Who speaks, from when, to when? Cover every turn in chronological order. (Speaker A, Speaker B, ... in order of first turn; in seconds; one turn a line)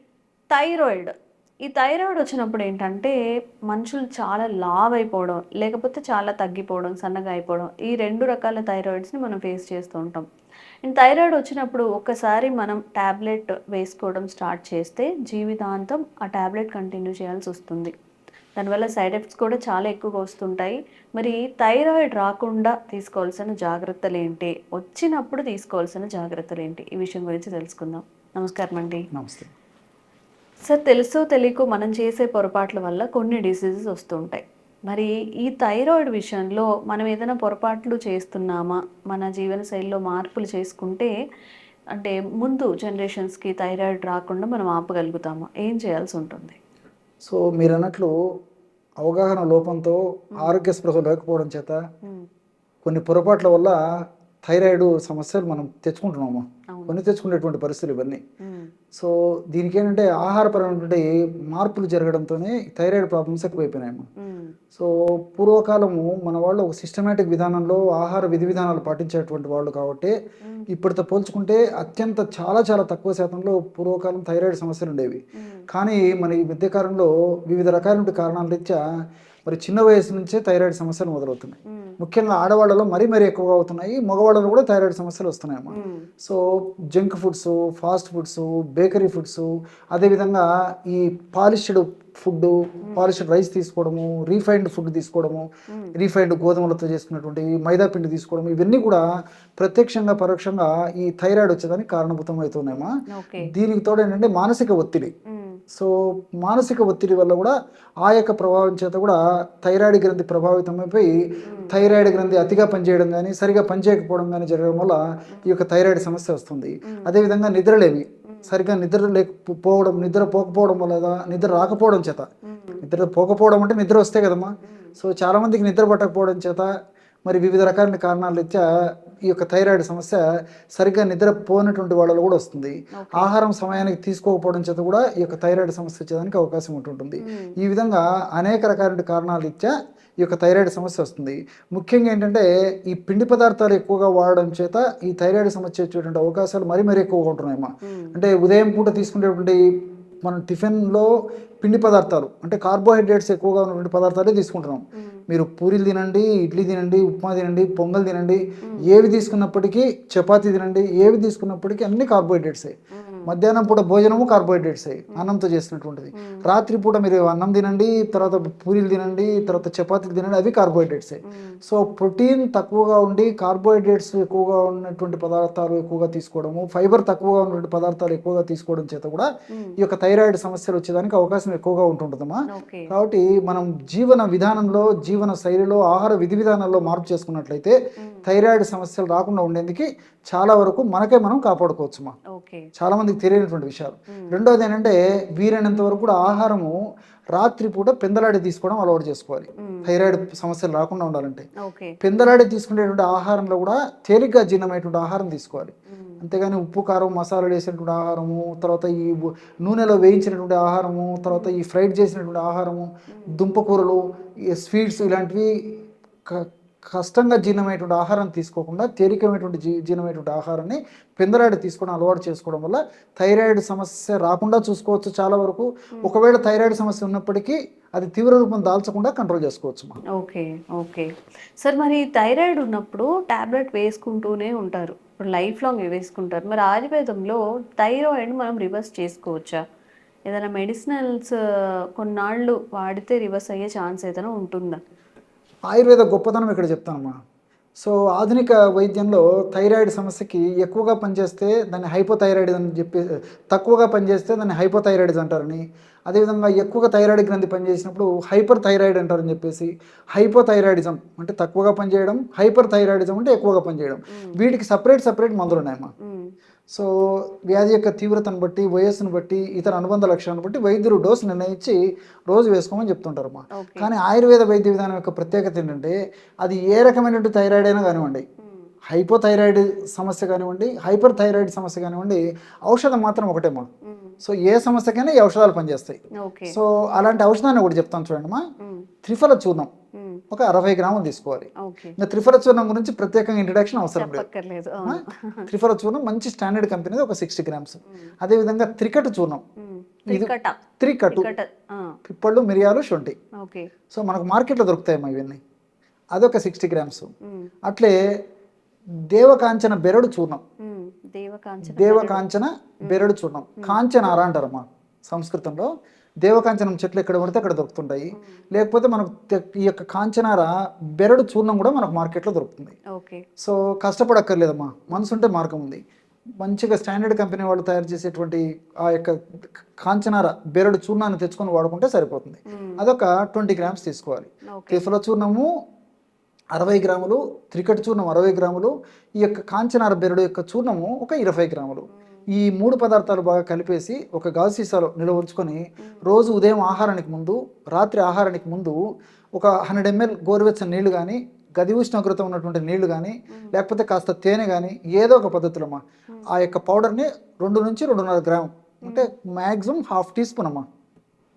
Speaker A: 0.5-1.1
Speaker A: 1.6-3.1
Speaker A: 3.7-10.2
Speaker A: 10.9-17.9
Speaker A: 18.6-29.1
Speaker B: 29.1-29.5
Speaker A: 30.7-41.1
Speaker A: 42.0-46.6
Speaker B: 47.2-48.1
Speaker B: 49.0-51.8
Speaker B: 52.8-53.8
Speaker B: 54.4-58.2
Speaker A: 56.7-57.0
Speaker A: 58.4-58.7
Speaker B: 59.0-64.0
Speaker A: 64.2-64.5
Speaker B: 64.8-70.2
Speaker B: 70.7-78.8
Speaker A: 75.4-75.6
Speaker B: 79.5-86.4
Speaker A: 81.7-82.0
Speaker A: 85.7-86.1
Speaker B: 86.9-99.0
Speaker B: 99.6-105.1
Speaker A: 103.1-103.5
Speaker A: 105.3-105.6
Speaker B: 105.7-111.1
Speaker B: 111.7-122.3
Speaker A: 118.3-118.5
Speaker A: 122.5-122.8
Speaker B: 122.8-126.7
Speaker B: 127.3-128.6
Speaker B: 129.3-130.2
Speaker B: 130.8-149.6
Speaker A: 133.0-133.3
Speaker A: 137.2-137.5
Speaker A: 147.8-148.2
Speaker B: 150.2-151.1
Speaker B: 151.6-162.7
Speaker A: 162.9-163.3
Speaker B: 163.3-192.2
Speaker A: 171.3-171.6
Speaker A: 182.5-182.9
Speaker A: 192.3-192.7
Speaker B: 192.8-196.8
Speaker B: 197.3-201.5
Speaker A: 199.6-199.9
Speaker A: 201.6-201.9
Speaker B: 202.0-214.0
Speaker A: 205.9-206.2
Speaker B: 214.5-215.5
Speaker B: 216.3-230.0
Speaker A: 230.2-231.1
Speaker A: 231.6-239.6
Speaker A: 240.3-241.4
Speaker A: 242.0-244.8
Speaker B: 245.7-247.2
Speaker B: 247.8-265.9
Speaker A: 266.0-266.3
Speaker B: 266.7-271.8
Speaker B: 272.3-278.2
Speaker A: 273.5-273.9
Speaker B: 278.9-283.7
Speaker A: 283.9-284.2
Speaker B: 284.2-286.0
Speaker A: 286.2-286.6
Speaker B: 286.5-288.4
Speaker A: 288.6-288.9
Speaker B: 289.0-289.7
Speaker A: 289.9-290.2
Speaker B: 290.3-294.3
Speaker A: 291.6-292.0
Speaker A: 294.0-295.5
Speaker B: 294.8-299.4
Speaker A: 299.6-300.6
Speaker B: 300.1-301.3
Speaker A: 301.1-301.9
Speaker B: 302.1-303.2
Speaker A: 303.4-303.7
Speaker B: 303.9-305.4
Speaker B: 306.1-307.1
Speaker B: 307.7-307.9
Speaker B: 309.1-310.4
Speaker A: 310.6-312.2
Speaker B: 311.6-315.7
Speaker B: 316.2-322.8
Speaker A: 322.9-323.2
Speaker B: 323.4-325.8
Speaker B: 326.4-329.2
Speaker B: 329.8-335.5
Speaker A: 332.5-332.8
Speaker A: 334.5-334.8
Speaker B: 336.6-348.8
Speaker B: 349.4-360.6